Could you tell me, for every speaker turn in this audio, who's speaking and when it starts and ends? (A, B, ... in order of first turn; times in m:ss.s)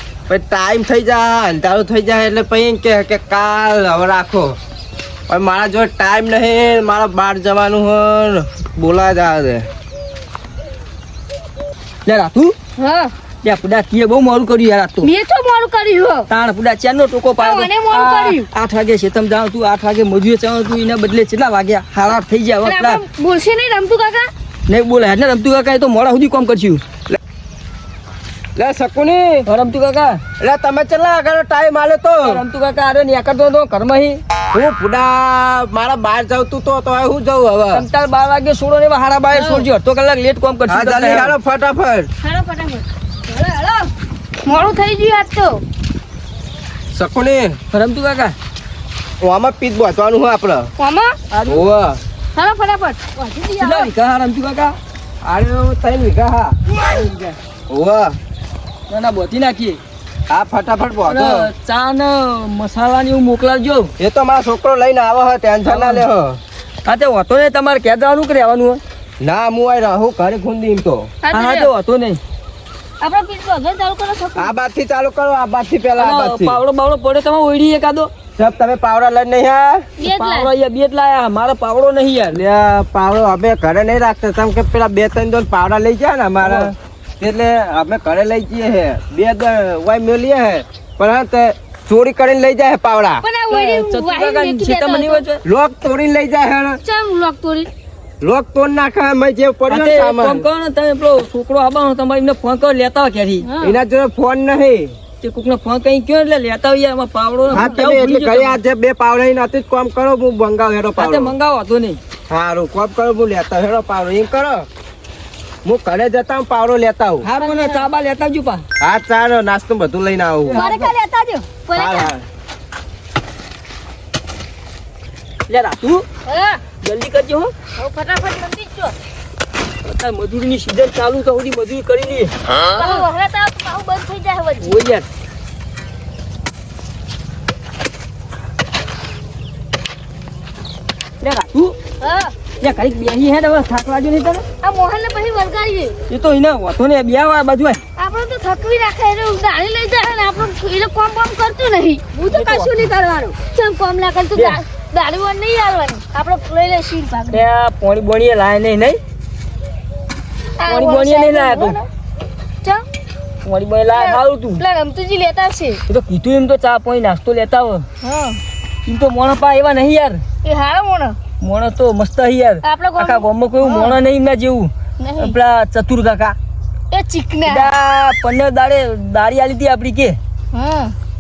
0:00.3-0:04.6 A
0:05.3-0:09.7 A
0:12.1-0:12.6 B
0:12.8-0:13.1 C
0:13.4-0:15.1 B
0:15.0-0:16.3 C
0:16.3-0:23.0 B
0:17.4-0:18.5 C
0:22.6-0:24.3 C
0:24.7-0:26.8 B
0:28.6-0:29.5 A
0:29.5-0:30.2 B
0:30.4-0:32.4 A
0:32.2-0:34.2 B
0:34.5-0:37.8 A
0:37.7-0:41.4 B
0:39.3-0:39.6 A
0:40.7-0:42.1 A
0:42.2-0:43.9 C
0:44.4-0:45.6 C
0:46.9-0:47.6 A
0:47.7-0:48.4 B
0:49.2-0:50.7 A
0:50.8-0:51.2 C
0:51.3-0:51.6 B
0:51.5-0:52.0 A
0:52.4-0:53.9 C
0:53.6-0:54.8 B
0:55.2-0:56.6 A
0:56.9-0:57.4 B
0:57.7-0:58.2 A
0:58.9-0:59.8 B
1:00.3-1:01.4 A
1:01.1-1:03.9 B
1:04.0-1:06.4 A
1:05.6-1:06.1 B
1:06.8-1:08.8 B
1:09.2-1:11.1 A
1:11.2-1:11.7 C
1:11.3-1:12.2 B
1:13.0-1:14.5 C
1:14.4-1:16.6 A
1:16.0-1:18.1 B
1:18.4-1:19.8 A
1:20.0-1:20.5 C
1:20.0-1:22.4 B
1:22.3-1:33.2 A
1:26.4-1:26.7 B
1:33.2-1:35.2 C
1:33.5-1:35.4 B
1:35.4-1:36.8 A
1:36.8-1:37.7 C
1:38.2-1:40.4 A
1:39.7-1:43.5 B
1:43.4-1:43.8 C
1:43.6-1:45.0 A
1:45.2-1:48.6 B
1:47.5-1:51.3 A
1:47.5-1:47.8 C
1:51.0-1:52.0 B
1:52.3-1:54.7 A
1:55.6-1:57.3 A
1:57.2-1:58.6 B
1:57.4-1:57.8 C
1:58.8-2:00.7 A
2:00.5-2:00.9 B
2:00.6-2:02.1 C
2:01.8-2:02.2 A
2:05.5-2:06.0 B
2:06.2-2:06.6 C
2:06.8-2:07.5 B
2:07.8-2:09.0 C
2:09.8-2:12.3 B
2:12.7-2:14.8 C
2:14.6-2:15.0 B
2:21.2-2:21.8 B
2:22.0-2:22.3 C
2:22.6-2:24.4 B
2:24.6-2:26.0 C
2:26.1-2:27.8 B
2:28.0-2:37.4 C
2:32.3-2:32.8 B
2:34.3-2:34.6 B
2:37.3-2:39.0 B
2:40.6-2:41.9 C
2:40.7-2:41.8 B
2:43.4-2:44.6 B
2:43.9-2:45.8 C
2:45.9-2:47.9 B
2:48.0-2:48.4 C
2:48.9-2:50.2 B
2:50.4-2:51.2 C
2:51.4-2:56.4 B
2:52.6-2:54.0 C
2:55.0-2:55.4 C
2:56.9-2:57.7 C
2:57.5-3:00.2 B
3:00.5-3:01.0 C